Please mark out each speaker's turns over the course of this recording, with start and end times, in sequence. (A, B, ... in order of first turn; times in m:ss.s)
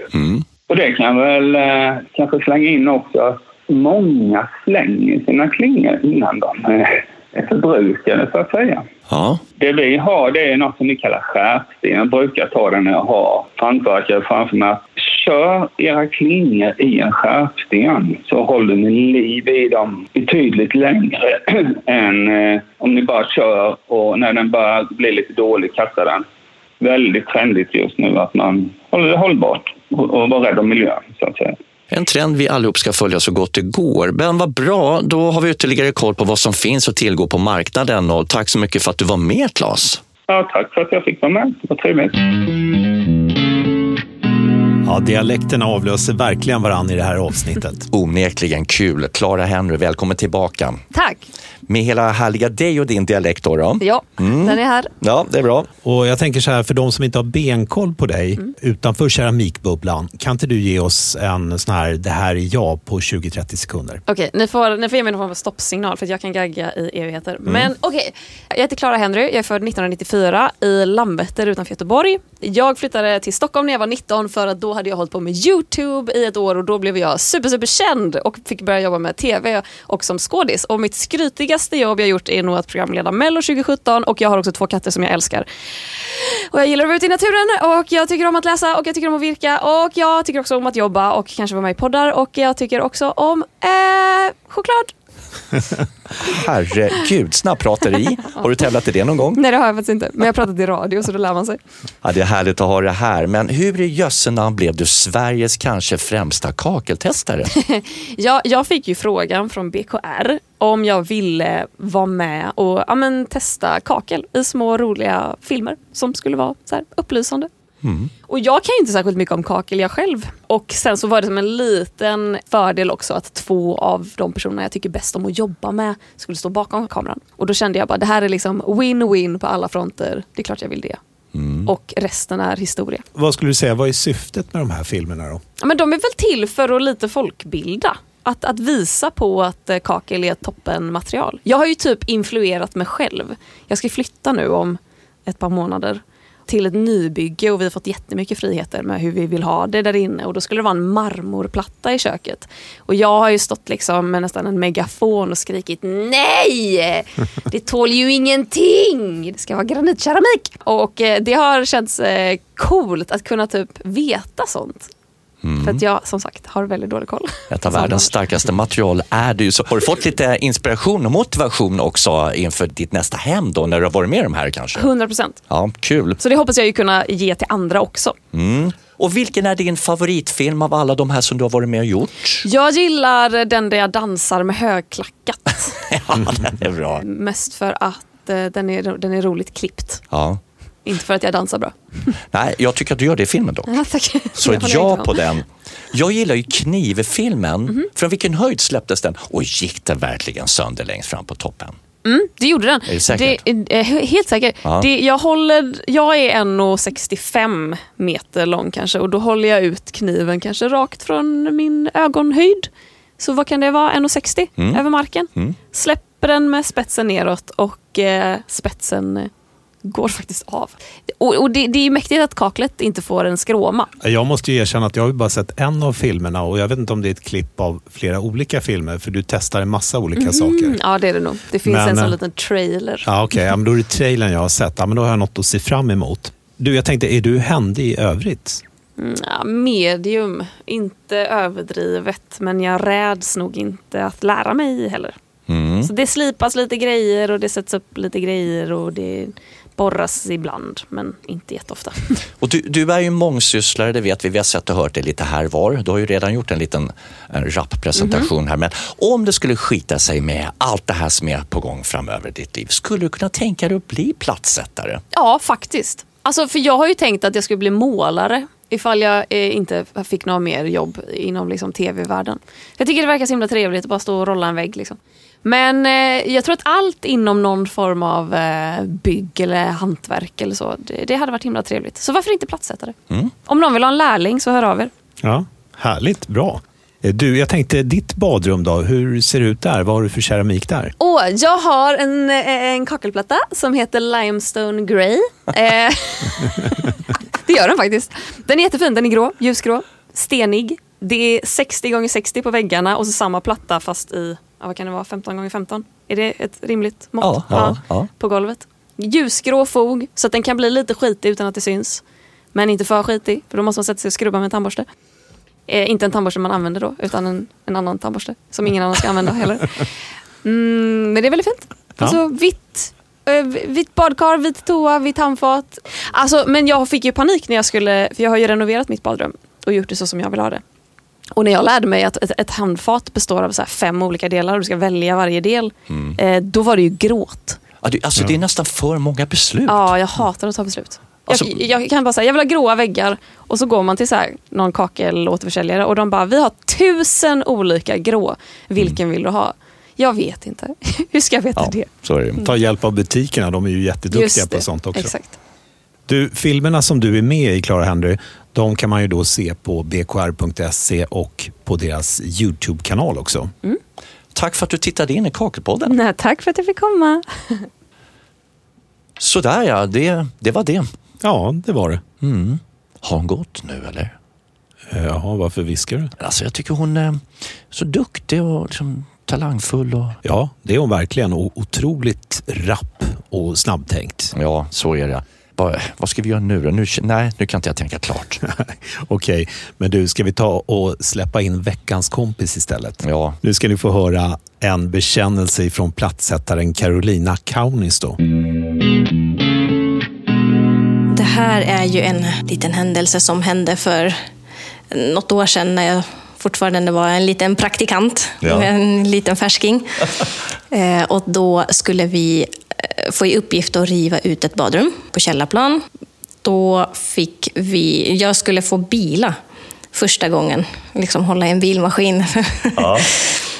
0:00.1-0:00.4 A
0:00.7-0:08.8 B
0:09.1-0:09.4 A
0:09.6-0:26.2 B
0:26.8-0:31.6 B
0:31.9-0:40.0 A
0:40.3-0:42.2 B
0:44.8-0:47.9 C
0:47.9-0:50.8 A
0:50.9-0:51.2 D
0:51.7-0:55.7 A
0:53.8-0:54.9 D
0:55.8-1:04.0 C
1:04.1-1:34.9 D
1:36.2-1:39.4 A
1:39.3-1:41.6 D
1:42.0-1:47.5 A
1:47.5-1:57.5 D
1:57.8-1:58.1 A
1:58.3-2:11.0 D
2:11.3-2:11.7 A
2:11.6-2:13.0 D
2:13.1-2:15.4 C
2:15.6-2:44.9 D
2:45.4-2:45.8 A
2:45.6-2:48.1 D
2:47.5-2:54.9 A
2:54.7-2:55.4 D
2:55.5-2:56.2 A
2:56.2-2:58.2 D
2:58.3-3:02.4 A
3:02.4-3:05.9 D
3:05.9-3:07.0 A
3:07.0-3:10.0 D
3:10.1-3:10.4 A
3:10.8-3:12.1 D
3:12.3-3:13.8 A
3:13.7-3:15.2 D
3:14.3-3:21.8 A
3:22.0-3:39.3 D
3:22.9-3:23.4 A
3:39.8-3:43.9 D
3:44.0-3:50.8 C
3:50.2-3:53.1 D
3:51.6-3:52.2 C
3:53.0-3:58.6 C
3:59.0-4:05.2 D
4:05.5-4:05.9 A
4:05.8-4:12.2 D
4:12.4-4:25.0 A
4:18.0-4:18.3 D
4:25.1-4:42.9 D
4:43.4-4:44.9 D
4:45.2-4:50.9 C
4:51.0-5:14.8 D
5:07.2-5:08.1 A
5:15.7-5:19.9 D
5:20.4-5:30.6 D
5:31.3-5:37.6 D
5:35.9-5:36.2 A
5:37.8-5:40.0 A
5:39.7-5:51.9 D
5:41.3-5:41.6 A
5:51.6-5:52.4 A
5:52.4-5:55.1 C
5:54.1-5:55.4 D
5:56.1-6:03.5 C
6:04.3-6:06.0 A
6:05.9-6:07.7 D
6:09.2-6:10.8 A
6:11.2-6:12.0 C
6:12.2-6:14.1 A
6:14.9-6:16.1 C
6:16.2-6:20.2 A
6:20.2-6:24.3 C
6:24.3-6:28.4 A
6:28.5-6:38.2 C
6:33.0-6:33.4 A
6:41.1-6:44.2 E
6:44.9-6:50.1 E
6:48.4-6:48.7 A
6:50.7-6:55.8 E
6:56.4-6:59.4 E
6:59.9-7:03.1 E
7:02.8-7:03.1 A